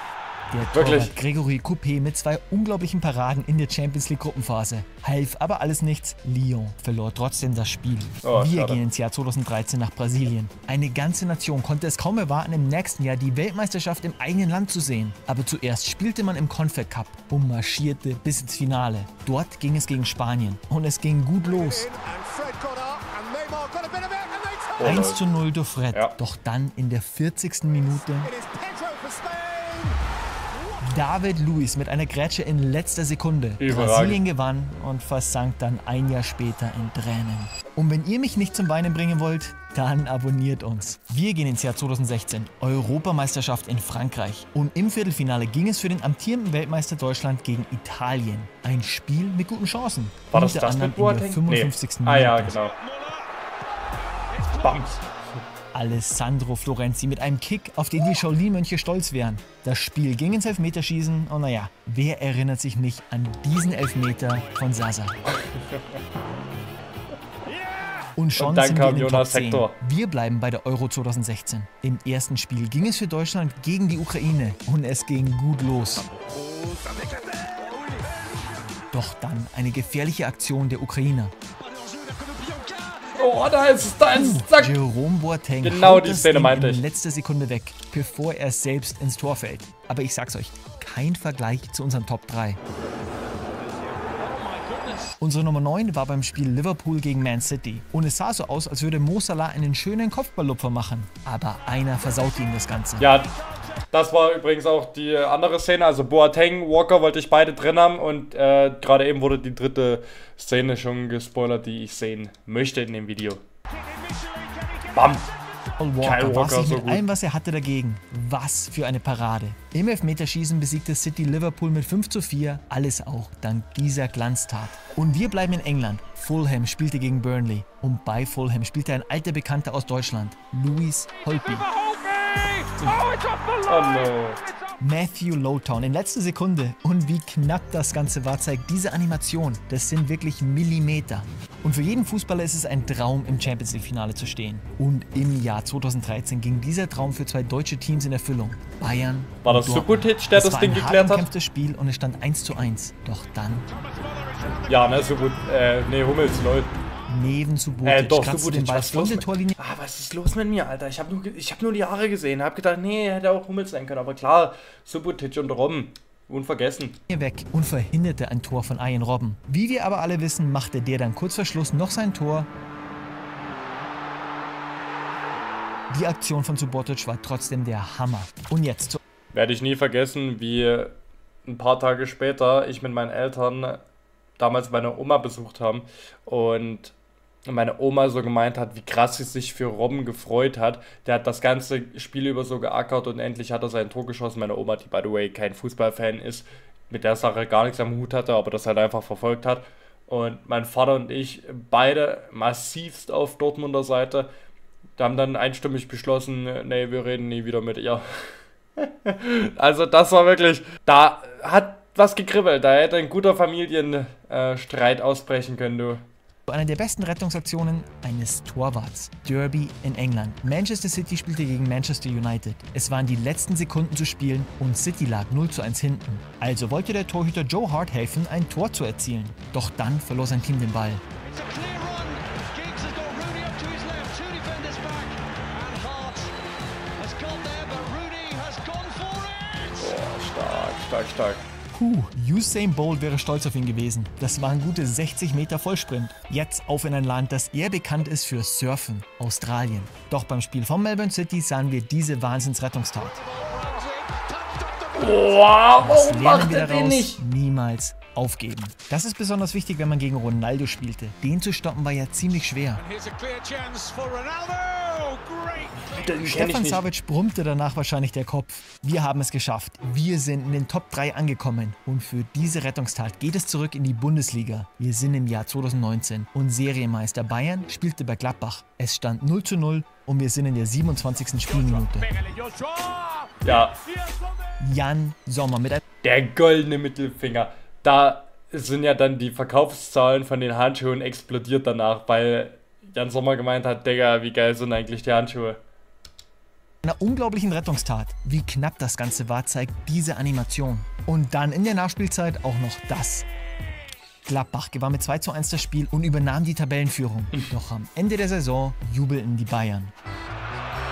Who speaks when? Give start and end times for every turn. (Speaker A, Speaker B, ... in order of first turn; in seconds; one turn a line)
Speaker A: 0.5-21.9
Speaker B: 0.7-1.1
Speaker B: 8.2-8.8
Speaker C: 22.3-24.4
Speaker B: 24.8-25.2
Speaker A: 24.8-28.3
Speaker C: 28.6-29.9
Speaker A: 30.8-52.6
Speaker B: 33.6-34.2
Speaker B: 50.3-52.7
Speaker C: 52.9-53.2
Speaker B: 54.5-55.0
Speaker A: 55.7-65.2
Speaker B: 65.3-65.8
Speaker C: 67.6-68.1
Speaker A: 68.2-76.1
Speaker B: 68.4-69.7
Speaker C: 76.2-78.0
Speaker A: 78.9-81.3
Speaker C: 81.8-83.1
Speaker B: 83.1-84.8
Speaker A: 84.1-92.6
Speaker B: 85.6-86.8
Speaker C: 94.2-95.1
Speaker A: 95.2-103.1
Speaker B: 103.0-103.3
Speaker B: 103.9-113.4
Speaker C: 113.9-114.8
Speaker B: 114.9-115.3
Speaker A: 115.8-131.7
Speaker B: 116.0-117.1
Speaker C: 131.4-134.1
Speaker B: 133.6-134.4
Speaker A: 134.8-153.7
Speaker B: 149.4-151.2
Speaker C: 154.1-154.6
Speaker B: 154.7-156.7
Speaker A: 157.1-159.6
Speaker B: 157.8-167.0
Speaker A: 167.1-172.5
Speaker A: 175.9-179.0
Speaker B: 179.3-183.8
Speaker B: 184.4-186.9
Speaker B: 187.4-204.3
Speaker B: 205.0-216.0
Speaker A: 216.5-231.0
Speaker C: 231.2-236.3
Speaker C: 237.0-239.7
Speaker B: 239.8-241.4
Speaker A: 241.7-253.2
Speaker C: 253.3-255.1
Speaker B: 254.9-257.2
Speaker A: 255.8-262.8
Speaker C: 262.9-266.0
Speaker B: 265.9-266.8
Speaker A: 266.2-282.1
Speaker C: 282.0-283.4
Speaker B: 283.4-283.8
Speaker A: 284.6-285.8
Speaker B: 286.0-295.6
Speaker A: 296.8-303.2
Speaker A: 304.2-309.9